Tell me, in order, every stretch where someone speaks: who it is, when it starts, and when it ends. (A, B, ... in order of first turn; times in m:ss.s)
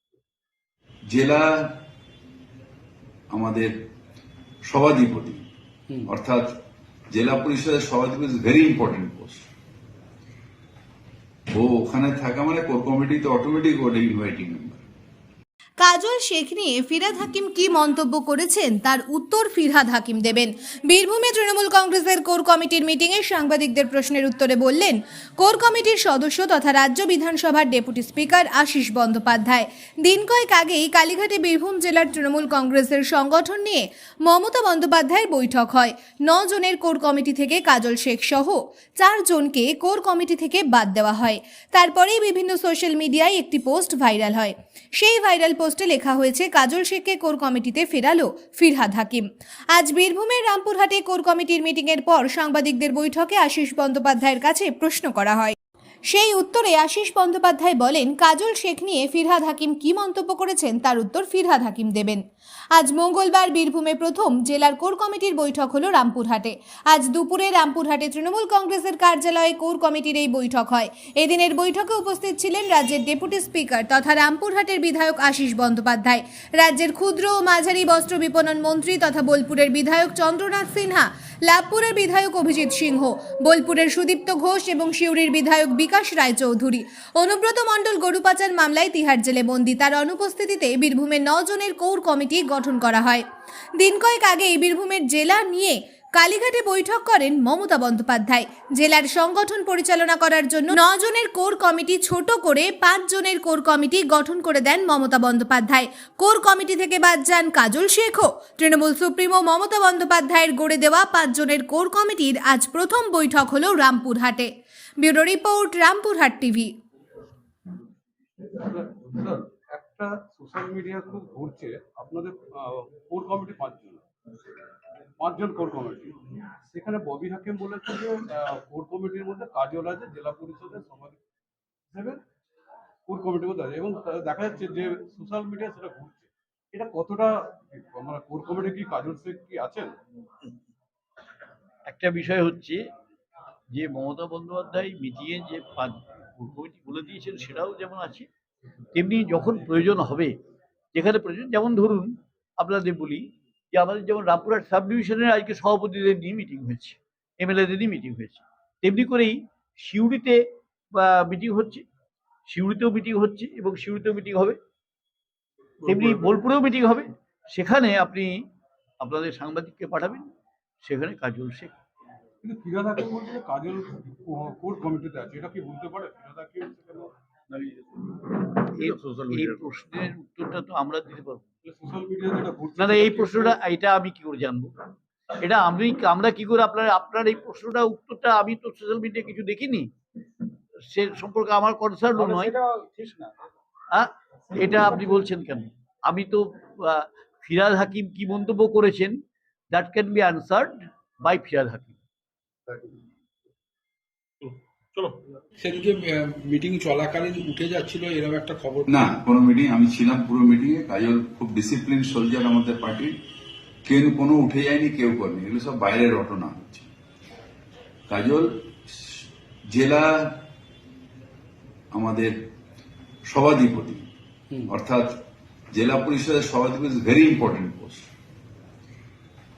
0:01.1-0:01.8 A
0:03.3-0:03.7 A
0:04.7-0:05.5 A
0:06.0-0:06.5 A
0:07.1-0:09.4 A
0:11.5-0:14.8 A
0:15.8-0:55.6 B
0:56.1-1:02.2 B
1:02.8-1:33.2 B
1:33.8-1:54.5 B
1:55.0-1:56.7 B
1:58.5-2:04.0 C
2:05.2-2:11.2 C
2:11.9-2:12.2 C
2:13.1-2:19.9 C
2:21.9-2:22.8 D
2:23.7-2:28.3 D
2:28.9-2:30.3 D
2:30.9-2:41.9 D
2:42.5-2:44.6 D
2:45.8-2:48.5 D
2:49.0-2:50.3 D
2:50.8-2:51.8 D
2:52.4-2:57.1 C
2:57.5-3:01.5 D
3:01.6-3:03.6 C
3:02.8-3:04.7 D
3:05.4-3:09.9 D
3:10.8-3:22.0 D
3:24.4-3:28.9 E
3:28.9-3:33.2 A
3:33.9-3:36.9 A
3:38.1-3:40.4 A
3:41.9-3:42.3 A
3:43.3-3:44.1 A
3:44.7-3:45.2 A
3:45.7-3:48.1 A